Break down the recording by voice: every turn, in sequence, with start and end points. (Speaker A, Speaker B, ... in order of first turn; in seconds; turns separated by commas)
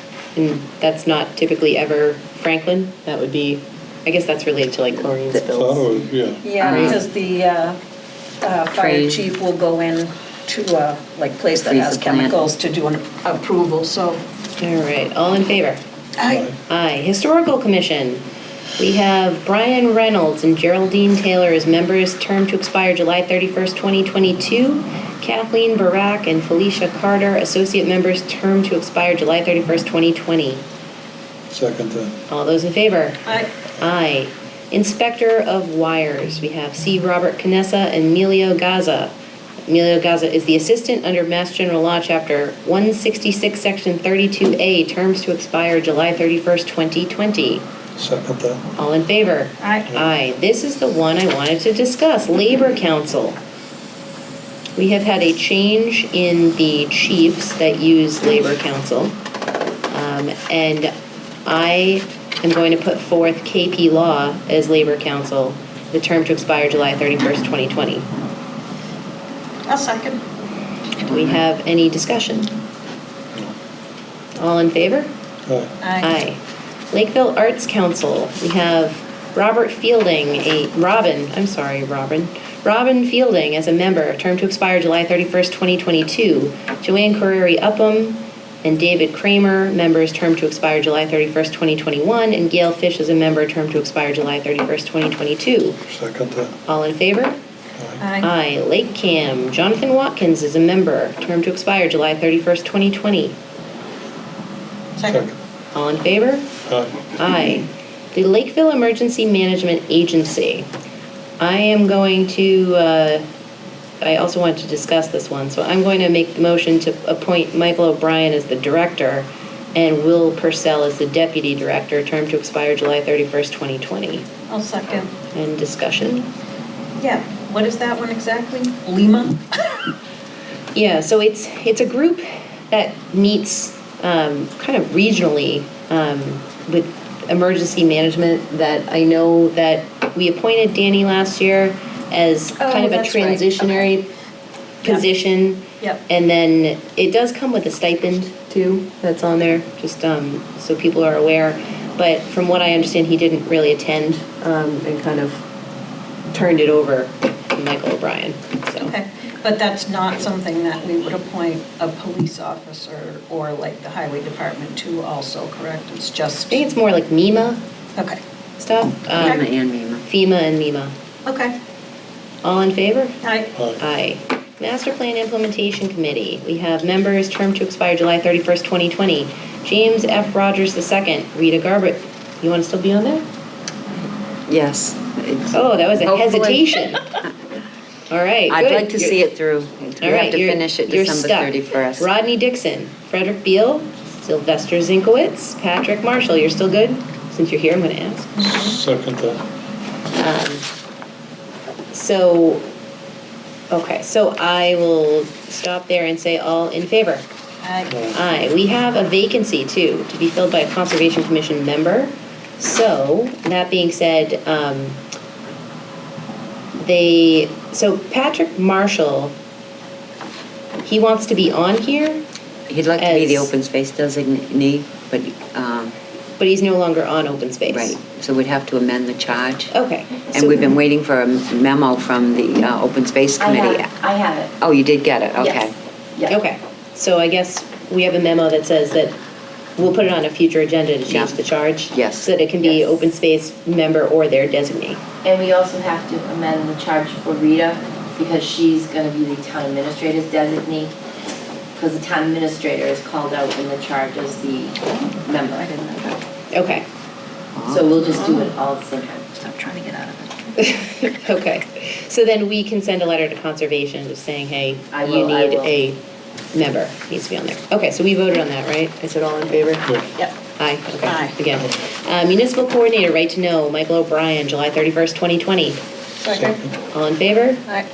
Speaker A: 0.3-5.9, Speaker B: 5.5-6.5, Speaker C: 6.4-7.8, Speaker D: 6.5-7.0, Speaker A: 6.6-7.0, Speaker C: 8.4-14.2, Speaker D: 8.7-9.2, Speaker D: 11.5-12.4, Speaker A: 14.6-15.8, Speaker C: 16.2-16.5, Speaker B: 16.3-16.6, Speaker A: 16.7-18.2, Speaker A: 18.8-30.6, Speaker B: 31.5-32.2, Speaker A: 32.3-33.2, Speaker A: 33.8-39.1, Speaker A: 39.6-47.6, Speaker B: 48.0-48.6, Speaker A: 48.7-53.4, Speaker C: 49.6-49.9, Speaker A: 54.8-59.1, Speaker A: 59.9-60.9, Speaker A: 61.5-68.1, Speaker C: 69.7-70.2, Speaker A: 71.0-72.6, Speaker A: 74.4-75.1, Speaker B: 75.5-75.7, Speaker C: 75.8-76.1, Speaker A: 76.0-76.4, Speaker A: 76.9-95.8, Speaker B: 95.9-96.5, Speaker A: 96.7-97.4, Speaker B: 97.8-98.0, Speaker C: 98.0-98.3, Speaker A: 98.2-103.4, Speaker C: 105.0-105.3, Speaker A: 105.7-106.5, Speaker B: 106.7-107.0, Speaker A: 107.2-110.7, Speaker A: 111.4-113.2, Speaker A: 114.0-124.3, Speaker C: 124.5-125.1, Speaker A: 125.3-126.3, Speaker C: 127.0-129.9, Speaker A: 130.8-144.1, Speaker C: 142.6-143.9, Speaker A: 144.8-155.4, Speaker A: 156.3-158.9, Speaker C: 158.8-166.6, Speaker A: 166.5-167.6, Speaker C: 168.0-168.2, Speaker A: 168.6-169.4, Speaker C: 169.1-169.4, Speaker D: 169.2-170.0, Speaker A: 170.1-170.9, Speaker C: 171.3-171.6, Speaker A: 172.4-173.2, Speaker C: 173.2-173.5, Speaker B: 173.6-173.8, Speaker A: 173.8-183.2, Speaker D: 184.5-187.0, Speaker A: 185.5-187.1, Speaker A: 188.1-189.2, Speaker D: 188.5-192.1, Speaker A: 190.0-198.5, Speaker C: 198.4-198.8, Speaker B: 198.4-199.5, Speaker A: 200.2-200.7, Speaker A: 201.9-202.7, Speaker A: 203.7-207.3, Speaker C: 207.6-208.0, Speaker A: 208.1-215.0, Speaker A: 216.8-219.3, Speaker A: 220.8-222.2, Speaker D: 222.7-225.9, Speaker A: 223.0-223.5, Speaker A: 226.4-228.0, Speaker D: 227.7-229.7, Speaker A: 229.7-230.5, Speaker D: 230.3-233.9, Speaker E: 233.4-234.6, Speaker D: 234.6-235.7, Speaker E: 235.4-236.3, Speaker A: 236.3-239.2, Speaker A: 239.8-245.0, Speaker D: 241.1-241.4, Speaker D: 241.9-242.3, Speaker E: 242.6-242.9, Speaker E: 245.2-250.9, Speaker E: 251.8-256.0, Speaker C: 255.6-256.2, Speaker A: 256.5-256.9, Speaker D: 257.6-257.9, Speaker E: 257.7-259.3, Speaker C: 258.1-258.5, Speaker C: 259.4-260.4, Speaker A: 260.6-266.0, Speaker E: 264.9-265.7, Speaker A: 266.5-270.0, Speaker A: 270.6-275.8, Speaker C: 271.0-271.4, Speaker C: 276.2-276.6, Speaker B: 276.3-276.8, Speaker A: 276.9-277.7